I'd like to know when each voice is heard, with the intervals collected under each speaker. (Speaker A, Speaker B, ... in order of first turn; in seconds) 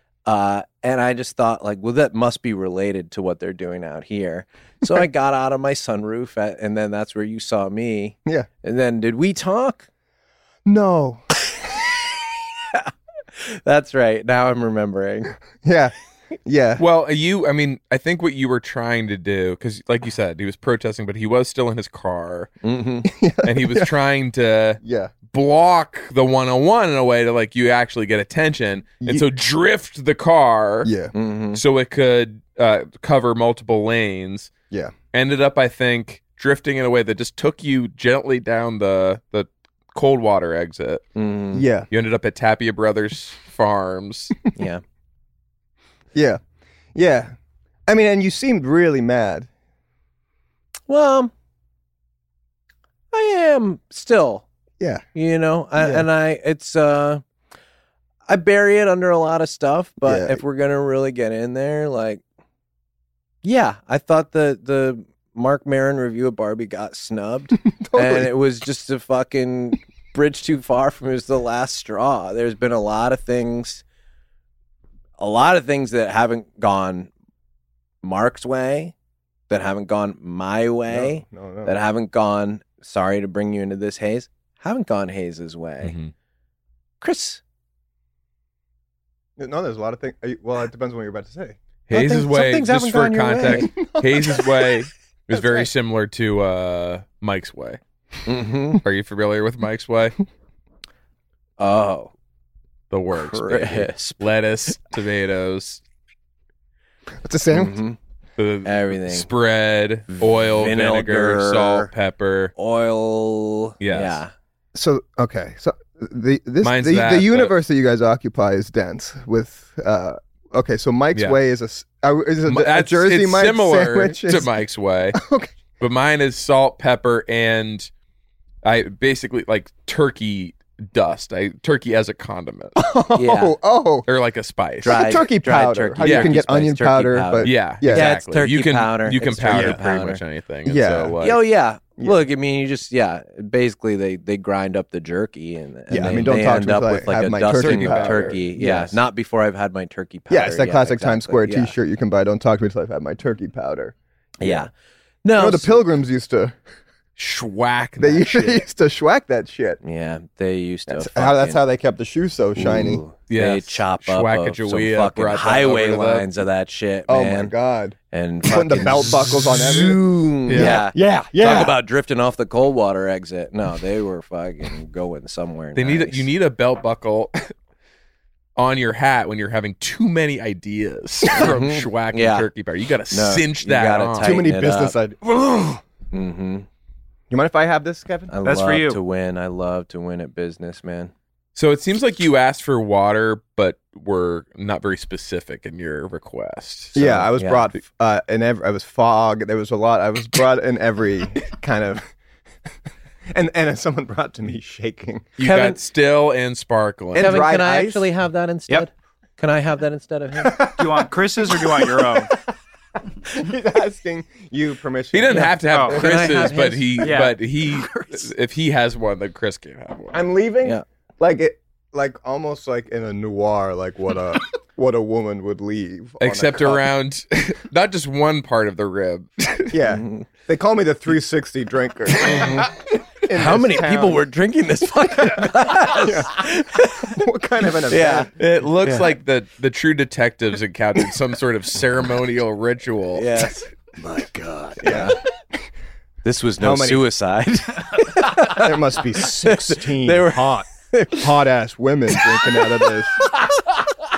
Speaker A: 0.3-9.9, 12.7-15.3, 22.6-23.1, 31.1-31.6, 41.2-41.6, 44.5-44.8, 50.9-51.3, 53.1-54.5, 55.1-57.2, 58.3-62.2, 63.4-73.8, 75.2-77.1, 78.0-78.9, 79.5-86.0, 87.0-87.4, 91.9-93.7, 98.3-98.8, 101.6-102.1, 103.1-104.2, 107.5-108.0, 108.7-109.3, 110.1-111.9, 112.6-114.3, 133.2-133.6, 134.8-140.2, 141.2-151.7, 154.4-154.7, 155.2-155.8, 159.8-161.6, 162.6-167.5, 168.1-176.3, 181.3-182.5, 183.1-185.0, 186.1-186.7, 188.3-191.1, 197.0-197.7, 205.4-205.8, 207.2-210.7, 215.3-217.2, 229.9-230.3, 232.2-232.7, 233.3-237.2, 237.9-238.3, 238.8-239.1, 243.2-245.2, 246.2-251.3, 252.3-252.9
Speaker B: 10.7-11.2, 15.6-16.8, 23.1-23.9, 24.8-25.1, 30.8-31.1, 41.5-41.9, 46.1-46.4, 47.0-47.4, 47.9-49.5, 55.8-56.1, 60.0-60.4, 67.7-68.3, 80.9-81.8, 89.4-91.6, 93.5-94.8, 95.3-95.7, 107.2-107.8, 114.7-124.5, 125.1-125.5, 132.8-134.1, 134.8-138.2, 139.5-139.8, 140.7-141.2, 145.9-149.0, 150.3-154.7, 155.3-156.6, 158.0-159.8, 160.9-163.0, 167.1-171.8, 184.2-185.8, 187.3-188.3, 196.9-202.1, 203.3-205.3, 207.1-208.1, 210.4-211.1, 211.7-212.2, 213.3-216.4, 220.1-226.9, 229.7-234.2, 235.2-238.3, 244.2-245.2, 246.6-247.1, 248.4-253.3
Speaker C: 16.8-22.5, 23.4-30.9, 31.5-34.5, 35.1-41.0, 41.9-44.4, 85.8-86.1, 91.9-97.8, 98.8-100.2, 102.9-105.8, 108.4-112.5, 113.8-114.2, 116.6-117.5, 122.5-125.2, 125.8-127.9, 128.6-132.8, 134.1-135.2, 136.0-136.3, 137.4-141.4, 147.6-148.5, 157.2-158.6, 163.3-166.3, 170.5-170.8, 175.8-177.5, 178.6-184.4, 191.6-197.0, 205.4-207.4, 215.1-220.2, 226.2-229.8, 238.4-243.5
Speaker D: 188.4-189.0, 210.8-212.3, 215.7-216.0, 217.0-217.4